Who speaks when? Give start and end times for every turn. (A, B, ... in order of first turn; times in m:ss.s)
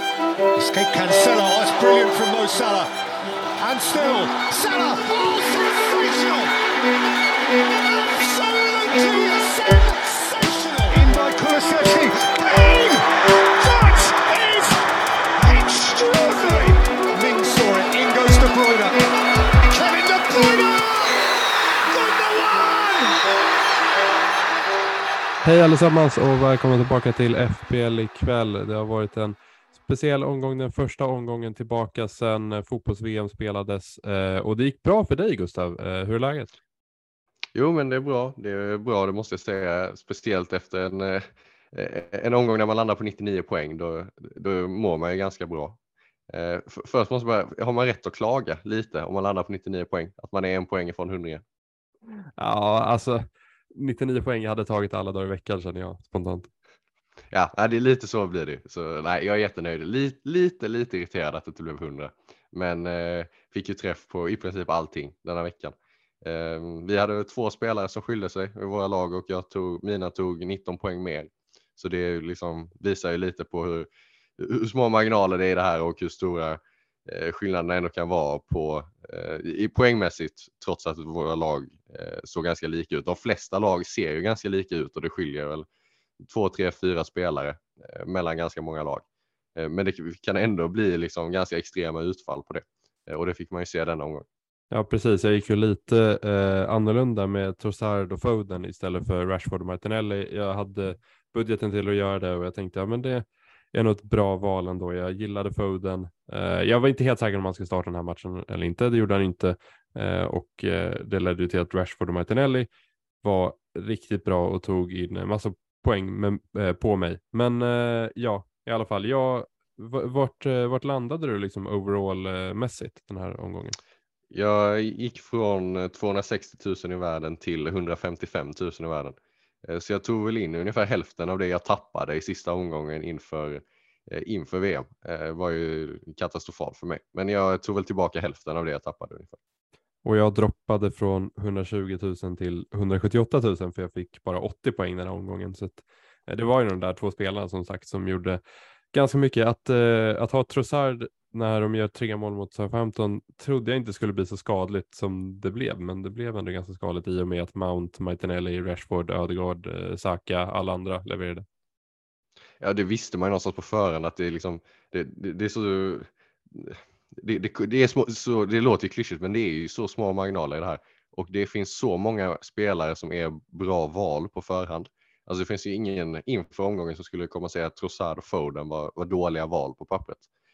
0:00.5-0:02.9 A
0:03.6-0:06.6 A
0:07.6-0:14.8 A
0:15.4-0:23.2 A
0:25.4-0:36.5 B
0:37.5-0:51.4 C
0:52.4-0:56.5 B
0:57.3-1:13.9 C
1:14.4-1:25.7 C
1:26.2-1:29.0 C
1:29.6-1:34.2 C
1:34.7-1:52.7 B
1:53.2-2:03.8 B
2:04.3-2:19.4 C
2:20.0-2:28.4 B
2:28.9-2:41.4 B
2:42.6-3:00.3 C